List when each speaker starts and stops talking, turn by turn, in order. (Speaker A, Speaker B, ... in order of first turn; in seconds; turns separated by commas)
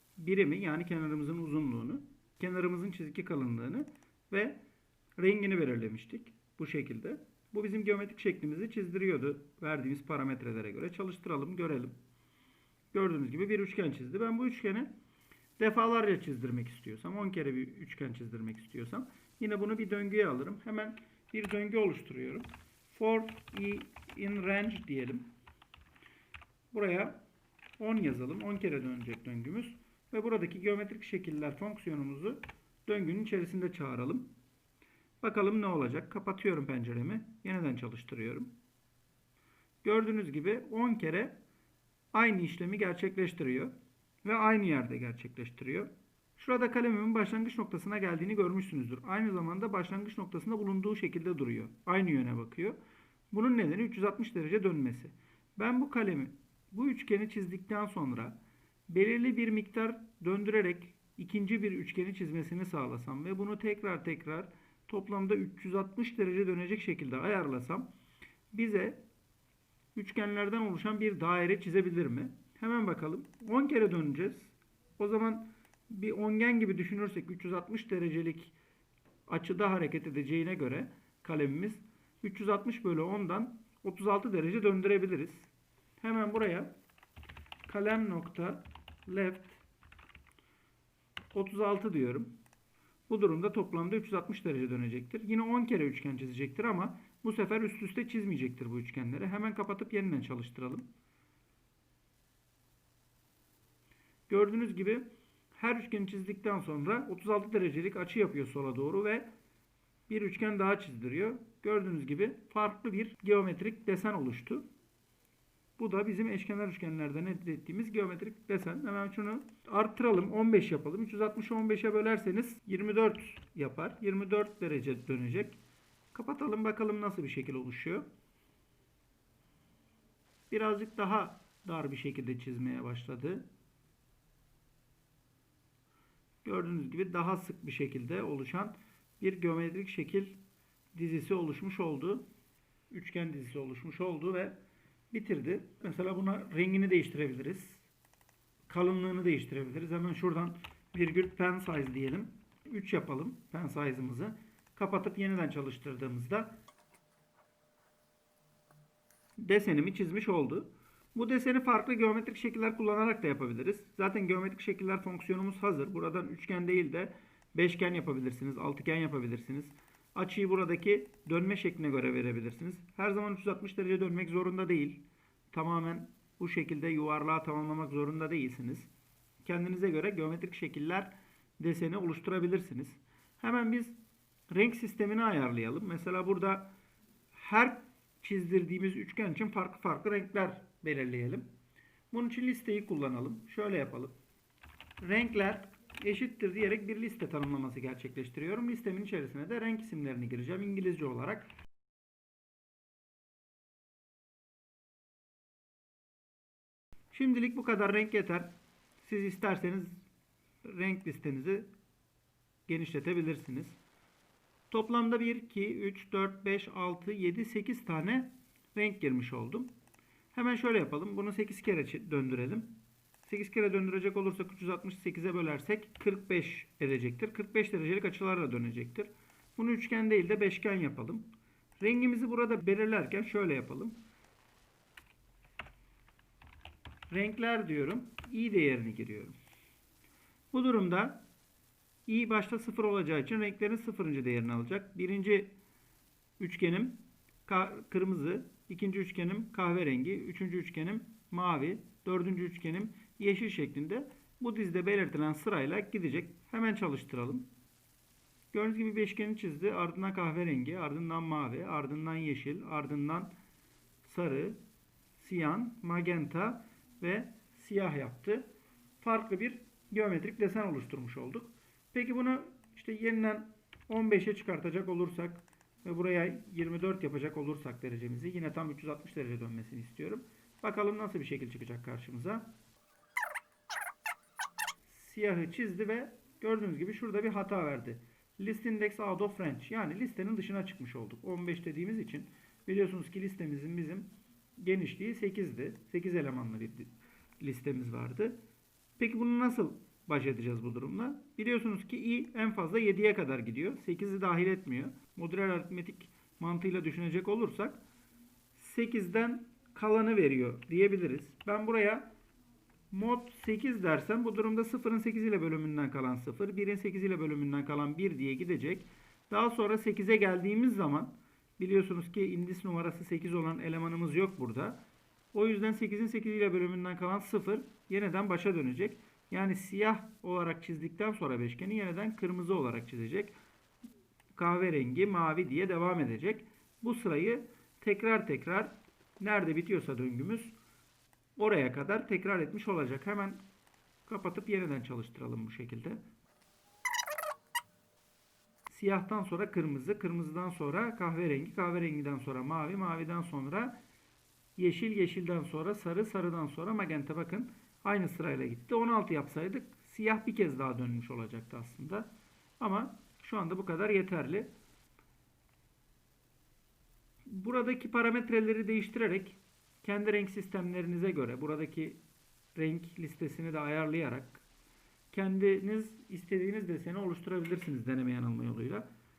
Speaker A: 0.2-4.6, Speaker A: 5.2-11.9, Speaker A: 12.9-14.9, Speaker A: 15.6-25.3, Speaker A: 26.7-27.2, Speaker A: 27.8-34.3, Speaker A: 35.2-38.5, Speaker A: 39.8-41.4, Speaker A: 42.1-43.7, Speaker A: 44.2-52.8, Speaker A: 53.3-58.4, Speaker A: 58.9-67.9, Speaker A: 68.5-69.0, Speaker A: 69.9-78.5, Speaker A: 79.3-86.8, Speaker A: 87.7-89.6, Speaker A: 91.3-92.3, Speaker A: 93.1-100.9, Speaker A: 104.3-109.3, Speaker A: 110.1-114.7, Speaker A: 115.8-125.6, Speaker A: 126.1-128.1, Speaker A: 130.5-133.5, Speaker A: 136.4-140.4, Speaker A: 140.9-142.2, Speaker A: 142.9-144.6, Speaker A: 145.1-147.9, Speaker A: 148.7-156.6, Speaker A: 159.4-178.9, Speaker A: 179.4-184.0, Speaker A: 184.5-186.7, Speaker A: 187.3-191.5, Speaker A: 192.1-194.1, Speaker A: 195.0-201.5, Speaker A: 207.1-210.0, Speaker A: 210.6-211.7, Speaker A: 212.7-213.8, Speaker A: 214.7-219.7, Speaker A: 220.3-234.0, Speaker A: 237.1-239.3, Speaker A: 240.5-241.2, Speaker A: 242.1-245.5, Speaker A: 246.4-257.5, Speaker A: 258.5-263.3, Speaker A: 264.0-264.6, Speaker A: 265.2-268.4, Speaker A: 269.0-282.5, Speaker A: 284.9-298.4, Speaker A: 299.0-307.8, Speaker A: 308.5-312.1, Speaker A: 312.9-324.8, Speaker A: 325.3-333.4, Speaker A: 334.3-340.6, Speaker A: 341.4-343.4, Speaker A: 344.1-346.0, Speaker A: 348.7-353.8, Speaker A: 354.6-362.1, Speaker A: 362.6-364.5, Speaker A: 367.3-372.0, Speaker A: 372.5-374.4, Speaker A: 375.1-378.9